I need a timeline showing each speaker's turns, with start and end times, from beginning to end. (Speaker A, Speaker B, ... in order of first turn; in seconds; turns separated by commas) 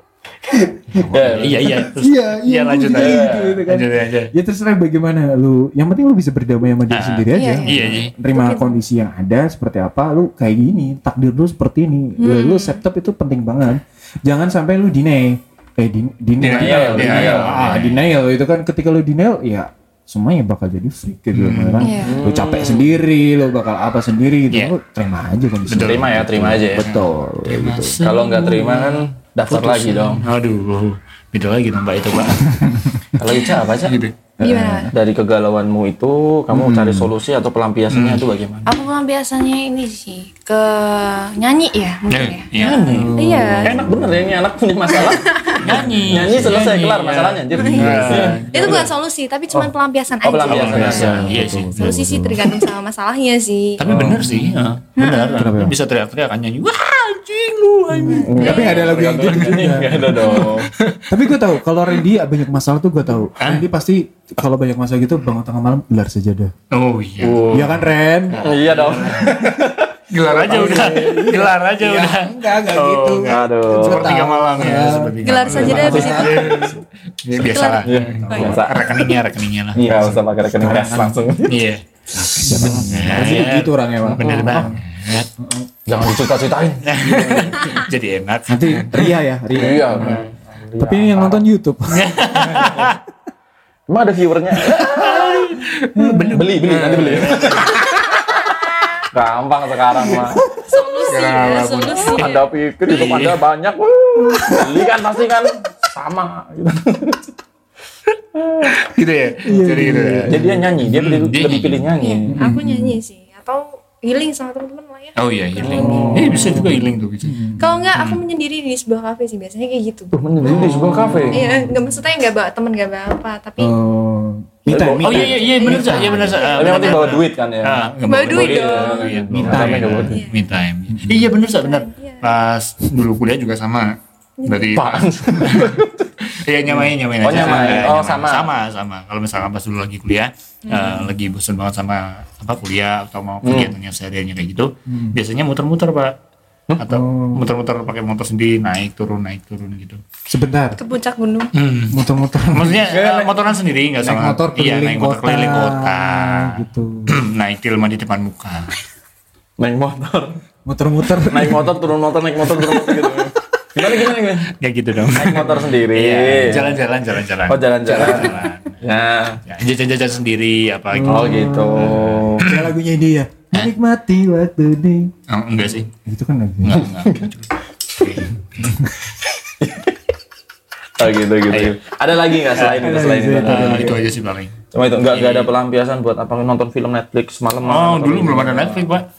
Speaker A: 0.5-28.0, Speaker B: 1.0-1.9, Speaker C: 1.2-4.3, Speaker B: 2.9-3.6, Speaker C: 6.9-8.1, Speaker D: 7.3-8.8, Speaker D: 12.2-12.8, Speaker B: 16.4-17.7, Speaker C: 16.4-18.1, Speaker C: 21.3-21.9, Speaker D: 21.8-22.2, Speaker B: 22.0-22.9, Speaker C: 25.7-34.1, Speaker B: 25.8-26.9, Speaker B: 28.0-30.2, Speaker B: 33.2-34.0, Speaker A: 34.4-34.9, Speaker D: 34.4-34.9, Speaker B: 34.9-38.8, Speaker A: 36.5-37.1, Speaker C: 37.9-38.2, Speaker D: 38.7-43.8, Speaker C: 42.1-43.1, Speaker B: 42.6-43.1, Speaker A: 42.9-44.4, Speaker B: 43.6-48.9, Speaker D: 45.1-45.6, Speaker C: 45.6-48.9, Speaker A: 45.6-46.7, Speaker A: 47.6-48.2, Speaker D: 47.6-53.8, Speaker B: 50.2-51.4, Speaker C: 50.5-51.9, Speaker A: 50.7-52.6, Speaker C: 53.8-61.1, Speaker A: 53.9-54.7, Speaker D: 55.0-55.5, Speaker A: 55.4-55.8, Speaker A: 57.9-60.5, Speaker B: 58.2-60.7, Speaker D: 58.4-58.7, Speaker A: 61.1-66.5, Speaker C: 63.4-63.6, Speaker C: 66.7-67.7, Speaker B: 67.2-67.8, Speaker A: 67.5-69.8, Speaker C: 68.3-69.4, Speaker B: 68.3-70.8, Speaker C: 70.1-79.8, Speaker A: 70.4-76.8, Speaker B: 73.3-74.2, Speaker D: 75.2-76.4, Speaker B: 75.5-76.8, Speaker D: 77.4-78.6, Speaker B: 77.8-79.1, Speaker A: 78.3-78.7, Speaker B: 79.8-81.6, Speaker A: 79.8-81.2, Speaker C: 81.5-85.3, Speaker A: 82.1-84.8, Speaker B: 82.3-83.5, Speaker B: 84.0-84.7, Speaker A: 85.4-85.7, Speaker B: 85.9-87.8, Speaker C: 86.8-89.2, Speaker A: 88.5-90.2, Speaker B: 89.5-91.4, Speaker C: 90.0-90.3, Speaker A: 90.8-92.7, Speaker C: 91.9-93.0, Speaker B: 93.9-95.6, Speaker C: 94.7-97.9, Speaker A: 96.0-96.5, Speaker B: 96.3-98.2, Speaker B: 99.1-100.4, Speaker A: 100.1-100.9, Speaker D: 100.7-102.5, Speaker C: 101.1-103.4, Speaker B: 102.0-107.3, Speaker A: 104.3-104.7, Speaker B: 108.3-108.8, Speaker C: 108.7-111.9, Speaker A: 109.5-110.7, Speaker B: 110.2-112.4, Speaker D: 112.0-116.2, Speaker A: 112.3-113.0, Speaker C: 115.2-118.2, Speaker B: 115.6-116.7, Speaker A: 115.7-116.7, Speaker A: 117.2-117.9, Speaker D: 117.6-120.1, Speaker B: 120.1-121.5, Speaker A: 120.4-121.8, Speaker D: 121.3-123.8, Speaker A: 123.6-126.4, Speaker B: 124.7-130.2, Speaker C: 125.0-146.2, Speaker D: 125.5-126.7, Speaker D: 128.1-129.2, Speaker A: 129.3-130.2, Speaker A: 130.9-131.3, Speaker D: 131.5-132.3, Speaker D: 134.4-134.7, Speaker B: 134.7-136.1, Speaker B: 136.7-138.5, Speaker A: 137.4-137.8, Speaker D: 140.7-141.1, Speaker B: 143.4-143.7, Speaker A: 144.9-145.2, Speaker C: 146.8-150.0, Speaker A: 146.9-147.4, Speaker A: 150.3-150.8, Speaker D: 150.8-151.5, Speaker C: 151.6-158.8, Speaker A: 151.9-152.8, Speaker B: 152.8-153.3, Speaker A: 154.0-157.2, Speaker B: 159.6-160.4, Speaker A: 160.7-161.8, Speaker B: 161.3-164.5, Speaker A: 162.6-162.9, Speaker C: 164.6-168.8, Speaker B: 165.1-166.8, Speaker B: 167.5-169.4, Speaker C: 169.5-172.7, Speaker A: 170.9-175.1, Speaker B: 171.1-172.5, Speaker C: 175.3-175.9, Speaker A: 175.9-176.9, Speaker C: 176.6-178.8, Speaker B: 176.8-177.3, Speaker A: 178.6-178.9, Speaker B: 179.6-180.0, Speaker B: 181.0-184.0, Speaker C: 181.5-181.8, Speaker C: 182.5-184.5, Speaker A: 182.6-184.0, Speaker B: 184.7-188.9, Speaker C: 185.1-185.5, Speaker C: 187.6-189.1